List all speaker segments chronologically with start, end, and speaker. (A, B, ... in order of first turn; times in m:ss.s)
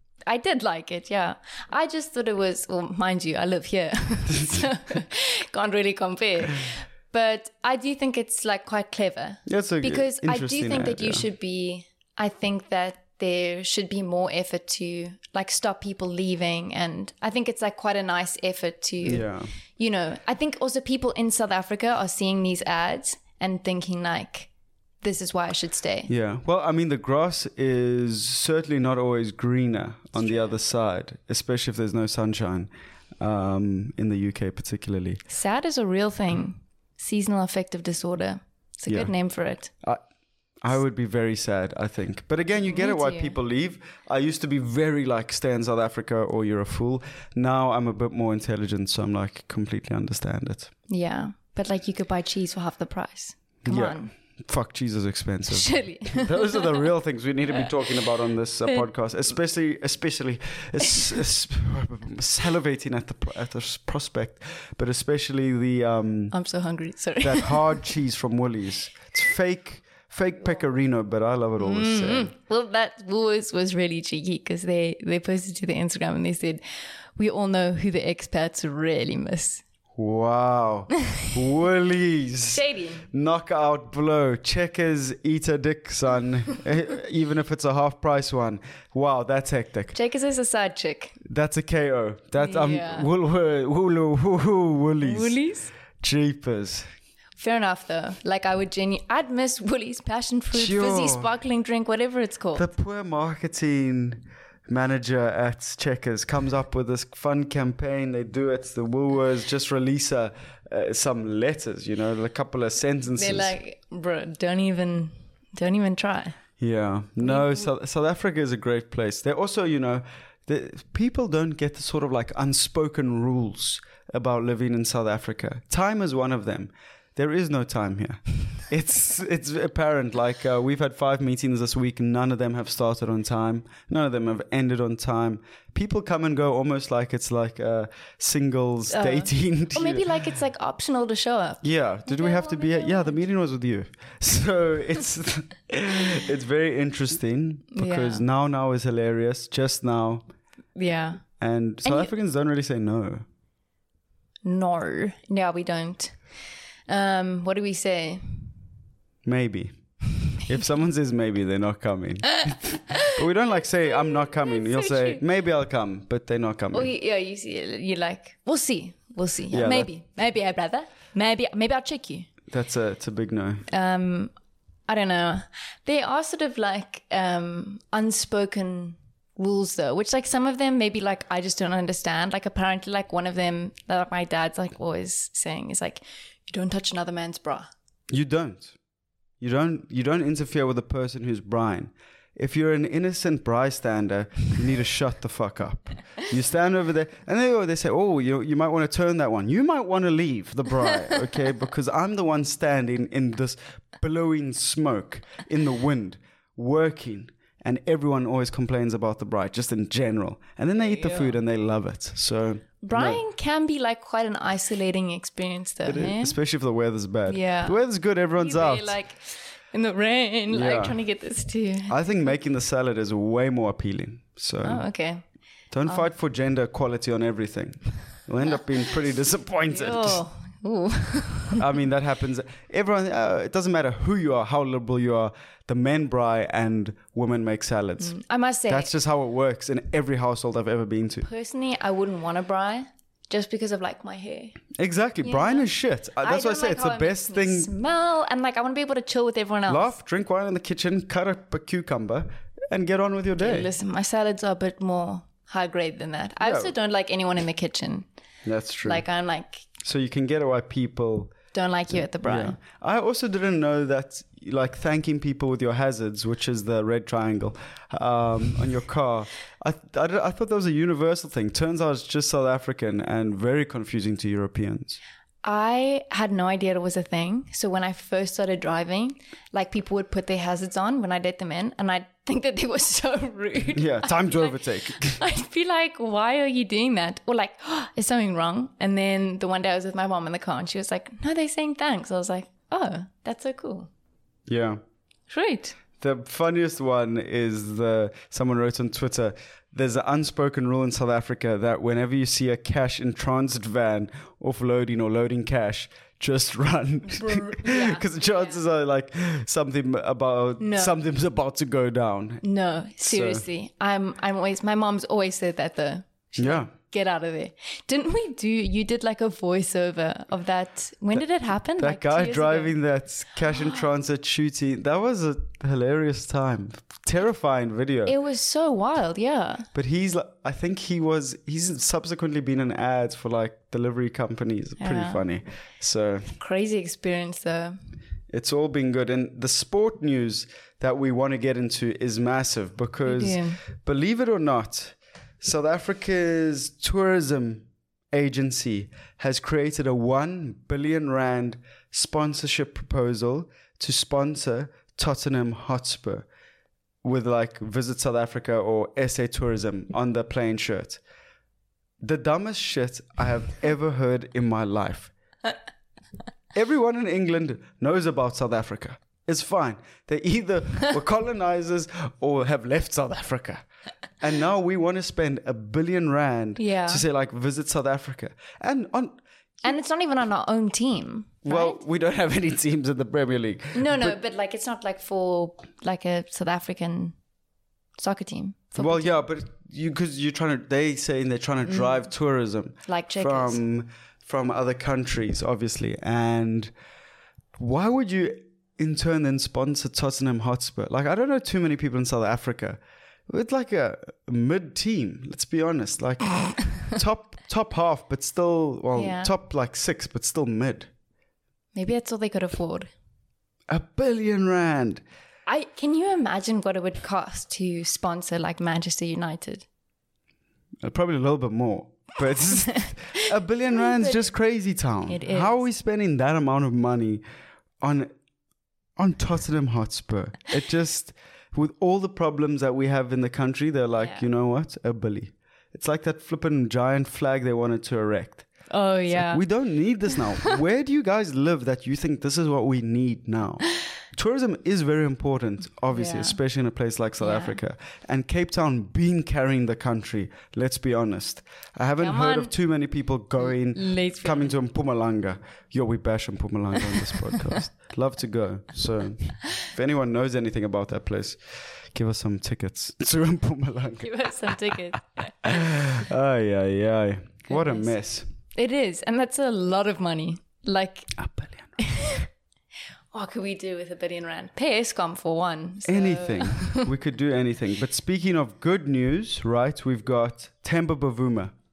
0:00.2-0:24.5 A
0:09.4-0:11.2 B
0:19.0-0:19.5 B
0:25.0-0:26.1 A
0:26.1-0:35.2 B
0:30.2-0:30.5 A
0:35.3-0:39.7 A
0:40.6-0:50.7 B
0:42.7-0:43.3 A
0:50.9-0:54.1 A
0:53.6-1:06.3 B
0:55.5-0:56.8 A
1:06.3-1:07.8 A
1:07.2-1:12.3 B
1:11.6-1:16.6 A
1:17.2-1:19.6 A
1:20.0-1:29.9 B
1:22.5-1:23.0 A
1:29.9-1:31.2 A
1:31.2-1:35.4 B
1:32.4-1:33.1 A
1:35.0-1:35.7 A
1:36.0-1:36.8 B
1:37.4-1:42.7 A
1:40.5-1:41.3 B
1:42.5-1:53.5 B
1:53.2-1:56.4 A
1:56.6-2:20.1 B
1:57.2-1:57.6 A
2:18.9-2:23.2 A
2:21.6-2:30.2 B
2:27.7-2:28.2 A
2:30.8-2:31.2 A
2:31.4-2:33.2 B
2:31.8-2:32.1 A
2:34.4-2:36.2 A
2:36.9-2:38.5 A
2:39.2-2:39.7 B
2:40.4-2:46.9 B
2:43.8-2:45.2 A
2:46.7-2:52.3 A
2:49.5-2:49.9 B
2:52.5-2:53.6 B
2:53.7-2:54.3 A
2:54.9-3:07.7 A
3:08.1-3:08.7 B
3:09.4-3:33.2 B
3:30.8-3:31.4 A
3:32.8-3:36.4 A
3:35.8-3:38.9 B
3:37.3-3:37.8 A
3:38.4-3:41.9 A
3:40.5-3:41.0 B
3:41.9-3:44.8 B
3:44.6-3:45.2 A
3:45.7-3:50.2 B
3:49.7-3:51.6 A
3:51.6-3:58.2 B
3:58.0-3:58.9 A
3:58.7-4:01.3 B
4:01.2-4:04.6 A
4:04.7-4:07.7 B
4:05.2-4:05.7 A
4:06.2-4:10.0 A
4:09.7-4:13.7 B
4:13.4-4:18.1 A
4:16.4-4:16.7 B
4:18.4-4:19.0 B
4:18.8-4:19.7 A
4:19.8-4:21.4 B
4:21.5-4:22.6 A
4:21.9-4:35.0 B
4:35.4-4:53.9 A
4:43.7-4:45.2 B
4:54.5-4:54.8 B
4:55.3-4:55.8 A
4:56.0-5:12.4 B
5:07.1-5:08.5 A
5:10.6-5:11.0 A
5:12.4-5:22.7 A
5:13.0-5:13.4 B
5:16.4-5:16.7 B
5:21.8-5:28.1 B
5:28.0-5:29.7 A
5:29.7-5:36.3 B
5:34.8-5:35.2 A
5:36.4-5:37.8 A
5:38.3-5:56.3 B
5:43.0-5:43.6 A
5:57.0-6:01.0 B
6:02.0-6:05.1 B
6:06.5-6:13.6 B
6:14.2-6:19.2 B
6:16.6-6:17.0 A
6:19.6-6:21.8 A
6:21.4-6:24.2 B
6:23.7-6:27.2 A
6:28.0-6:29.2 A
6:28.8-6:36.7 B
6:32.9-6:33.6 A
6:37.6-6:50.9 B
6:49.0-6:49.3 A
6:51.7-6:52.9 A
6:53.7-6:55.0 B
6:55.4-6:59.6 A
7:00.8-7:07.2 B
7:02.7-7:03.2 A
7:03.7-7:04.2 A
7:05.1-7:05.6 A
7:07.8-7:08.1 B
7:09.0-7:18.5 B
7:14.0-7:14.2 A
7:18.7-7:19.4 A
7:19.1-7:41.4 B
7:25.9-7:26.4 A
7:27.2-7:27.6 A
7:32.0-7:32.5 A
7:33.5-7:34.5 A
7:37.1-7:37.6 A
7:41.9-7:44.1 B
7:44.0-7:45.3 A
7:45.4-7:48.3 B
7:47.5-7:47.9 A
7:48.5-7:51.1 A
7:51.2-7:51.7 B
7:51.8-7:52.3 A
7:53.1-7:56.9 A
7:55.8-8:01.5 B